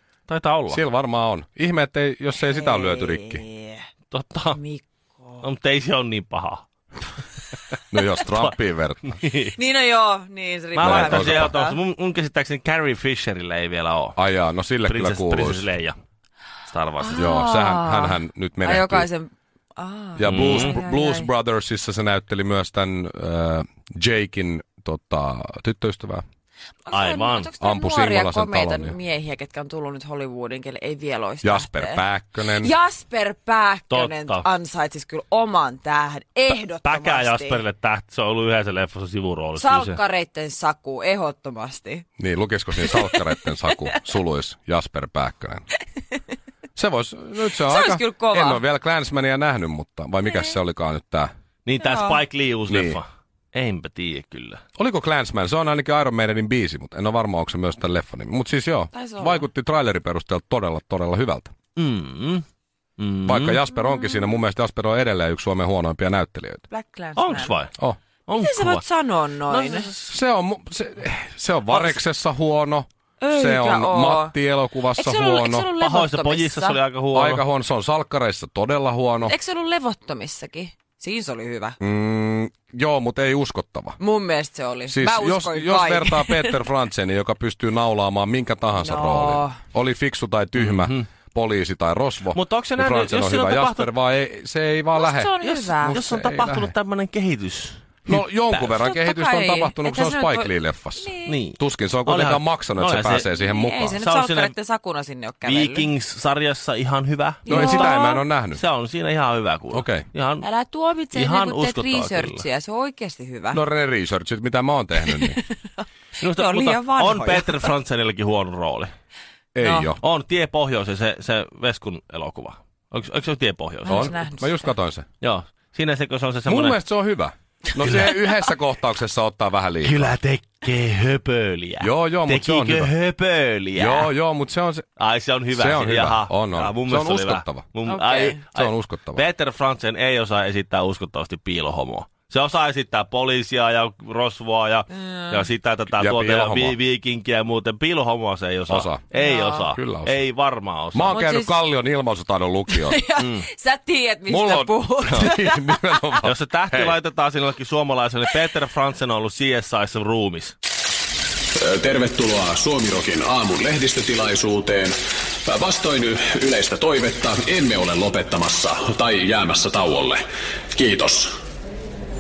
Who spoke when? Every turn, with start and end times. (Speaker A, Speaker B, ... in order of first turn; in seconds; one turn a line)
Speaker A: 0.3-0.8
Speaker B: 0.7-3.4
Speaker C: 2.4-3.9
Speaker A: 4.1-4.6
Speaker C: 4.5-5.5
Speaker A: 5.4-6.6
Speaker B: 7.9-9.2
Speaker A: 8.0-8.5
Speaker A: 9.1-9.5
Speaker C: 9.6-11.8
Speaker A: 10.7-14.2
Speaker B: 10.8-11.5
Speaker B: 14.2-15.7
Speaker A: 14.8-15.9
Speaker A: 16.7-17.3
Speaker C: 17.0-21.3
Speaker B: 17.1-19.1
Speaker B: 20.2-26.2
Speaker A: 20.3-20.8
Speaker C: 26.9-37.6
Speaker A: 26.9-27.5
Speaker B: 27.6-29.0
Speaker B: 31.4-32.7
Speaker A: 33.9-34.5
Speaker A: 36.8-40.0
Speaker C: 39.5-42.1
Speaker B: 42.2-45.6
Speaker C: 42.8-43.2
Speaker B: 46.8-51.3
Speaker C: 47.5-48.6
Speaker C: 50.2-50.6
Speaker A: 51.6-54.6
Speaker C: 51.8-52.2
Speaker B: 52.7-53.0
Speaker B: 54.8-61.5
Speaker C: 58.9-59.5
Speaker A: 61.8-62.4
Speaker A: 63.0-63.6
Speaker B: 63.2-66.6
Speaker C: 63.8-64.4
Speaker C: 66.7-67.6
Speaker A: 67.2-67.8
Speaker A: 68.3-68.8
Speaker C: 68.4-69.9
Speaker A: 69.5-70.1
Speaker B: 70.1-75.7
Speaker A: 71.7-72.0
Speaker C: 73.2-74.3
Speaker C: 75.0-76.8
Speaker A: 75.8-77.5
Speaker B: 77.1-79.3
Speaker C: 79.2-81.8
Speaker B: 81.8-84.0
Speaker C: 84.0-86.7
Speaker B: 84.9-96.7
Speaker C: 88.7-89.6
Speaker A: 90.6-91.1
Speaker A: 92.3-93.9
Speaker C: 94.9-96.0
Speaker A: 95.4-98.8
Speaker B: 98.1-104.0
Speaker C: 98.8-101.4
Speaker A: 101.3-103.3
Speaker C: 103.2-105.9
Speaker A: 104.0-104.5
Speaker A: 105.4-108.0
Speaker C: 107.5-108.3
Speaker B: 107.5-108.6
Speaker A: 108.5-110.5
Speaker B: 109.7-110.1
Speaker C: 110.4-113.6
Speaker A: 111.1-112.5
Speaker B: 113.5-115.4
Speaker C: 115.0-117.7
Speaker A: 116.2-118.9
Speaker B: 119.5-120.0
Speaker C: 119.6-119.9
Speaker A: 120.0-124.2
Speaker C: 123.8-124.7
Speaker B: 123.9-125.1
Speaker A: 125.2-126.8
Speaker B: 126.5-130.2
Speaker A: 127.8-128.2
Speaker A: 129.8-134.1
Speaker B: 131.8-132.9
Speaker B: 133.8-134.9
Speaker A: 135.0-151.2
Speaker B: 135.5-137.7
Speaker C: 137.9-138.4
Speaker B: 138.5-139.2
Speaker C: 144.9-145.5
Speaker B: 145.9-146.8
Speaker B: 148.7-149.1
Speaker C: 149.1-149.7
Speaker B: 149.7-150.2
Speaker B: 150.9-153.0
Speaker C: 151.1-151.7
Speaker C: 152.7-156.2
Speaker A: 153.2-153.5
Speaker B: 154.3-157.0
Speaker A: 156.2-160.6
Speaker D: 161.6-164.9
Speaker D: 165.5-171.3